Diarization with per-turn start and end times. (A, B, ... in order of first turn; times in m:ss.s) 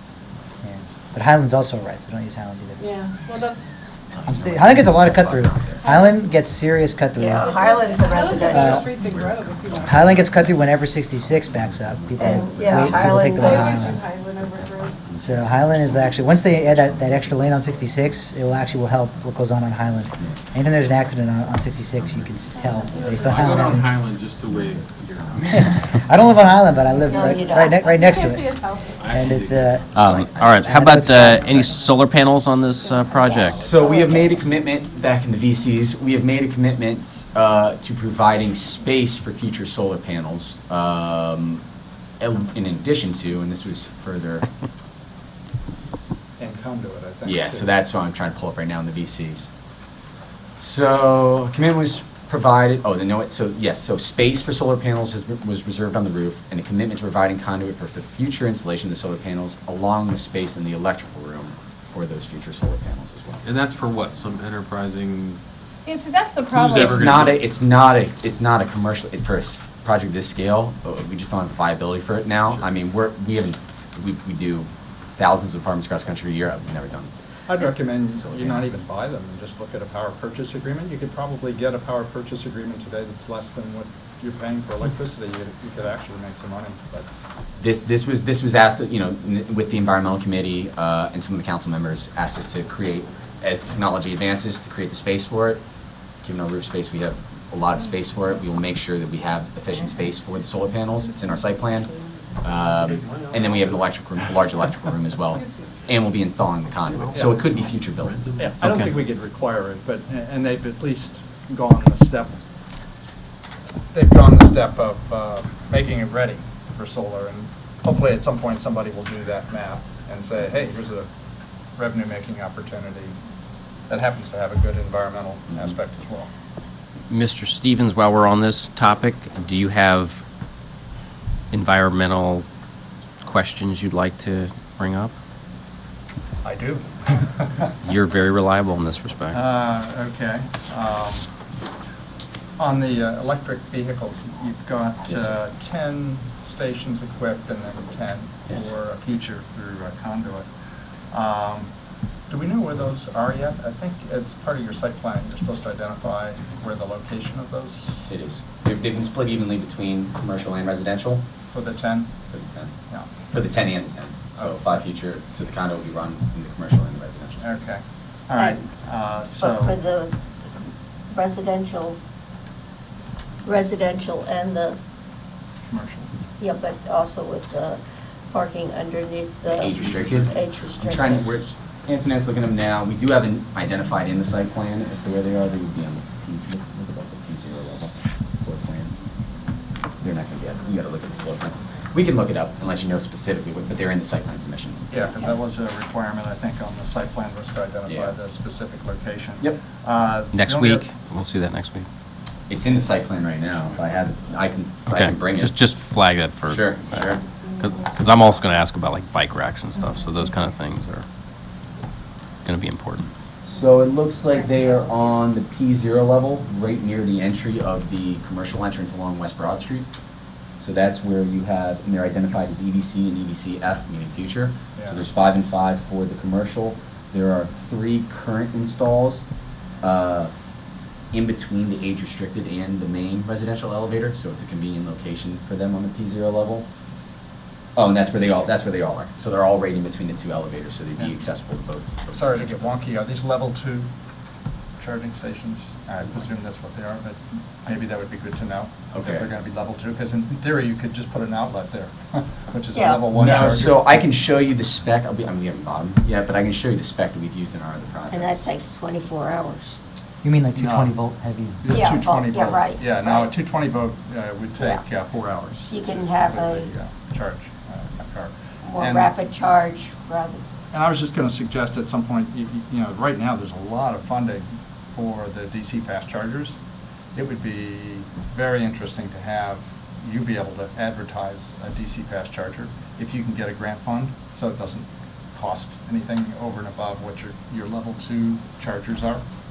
0:00.6-0:02.8 A
0:02.8-0:03.8 B
0:04.1-0:05.9 C
0:04.3-0:07.5 A
0:05.8-0:06.2 B
0:07.2-0:08.8 D
0:07.4-0:10.1 B
0:08.5-0:08.9 A
0:09.0-0:09.4 C
0:09.7-0:10.5 E
0:09.8-0:14.0 A
0:11.9-0:13.9 C
0:12.2-0:13.5 D
0:13.3-0:15.0 B
0:14.7-0:15.4 C
0:15.2-0:23.9 A
0:15.9-0:17.9 E
0:20.2-0:27.0 C
0:22.5-0:23.5 B
0:22.9-0:25.5 E
0:25.5-0:28.5 A
0:27.1-0:27.9 D
0:27.4-0:29.2 B
0:29.0-0:29.8 E
0:29.1-0:29.8 A
0:29.9-0:30.7 C
0:29.9-0:33.7 F
0:30.6-0:31.8 A
0:32.8-0:34.5 B
0:33.3-0:34.2 D
0:33.5-0:41.6 C
0:42.2-0:44.5 C
0:46.4-0:47.7 G
0:47.2-0:49.5 C
0:50.6-1:03.4 C
1:03.4-1:05.4 E
1:05.9-1:06.8 B
1:06.5-1:18.8 C
1:06.8-1:07.4 E
1:17.5-1:27.1 G
1:27.6-1:35.6 C
1:36.2-1:41.9 C
1:41.0-1:42.2 B
1:42.4-1:48.3 C
1:42.7-1:43.9 E
1:45.3-1:45.7 B
1:46.8-1:48.6 E
1:48.4-1:52.4 G
1:48.6-1:48.9 F
1:53.9-2:01.1 G
2:01.8-2:03.2 G
2:03.9-2:06.3 G
2:07.1-2:10.2 F
2:11.5-2:12.5 F
2:13.2-2:15.1 F
2:16.4-2:17.6 G
2:17.8-2:19.4 F
2:19.3-2:21.3 G
2:22.6-2:30.5 G
2:25.0-2:25.4 C
2:31.1-2:31.7 G
2:32.3-2:38.0 G
2:38.0-2:41.3 C
2:41.5-2:42.1 G
2:42.3-2:47.7 C
2:44.4-2:44.7 G
2:47.4-2:49.8 G
2:48.4-2:48.7 D
2:49.4-2:50.2 D
2:51.1-2:52.0 D
2:53.4-2:54.8 D
2:55.6-2:56.1 G
2:56.4-3:01.4 D
2:59.5-3:08.9 C
3:10.0-3:14.9 C
3:14.9-3:20.9 G
3:17.9-3:18.2 C
3:20.3-3:21.9 F
3:22.5-3:25.6 C
3:24.9-3:31.0 F
3:26.5-3:27.2 C
3:27.0-3:28.1 B
3:32.4-3:33.1 F
3:33.4-3:39.9 C
3:40.6-3:49.2 C
3:44.8-3:45.0 G
3:49.8-3:50.3 C
3:51.1-3:56.7 C
3:57.8-4:02.7 C
4:02.1-4:03.9 G
4:04.8-4:13.8 G
4:08.9-4:09.3 C
4:12.7-4:13.1 D
4:13.1-4:18.5 C
4:18.1-4:19.8 D
4:20.2-4:21.7 A
4:20.6-4:21.0 G
4:21.6-4:29.1 G
4:21.7-4:23.3 D
4:24.6-4:24.8 D
4:25.7-4:26.7 D
4:28.6-4:30.4 D
4:30.7-4:36.6 G
4:37.2-4:49.2 G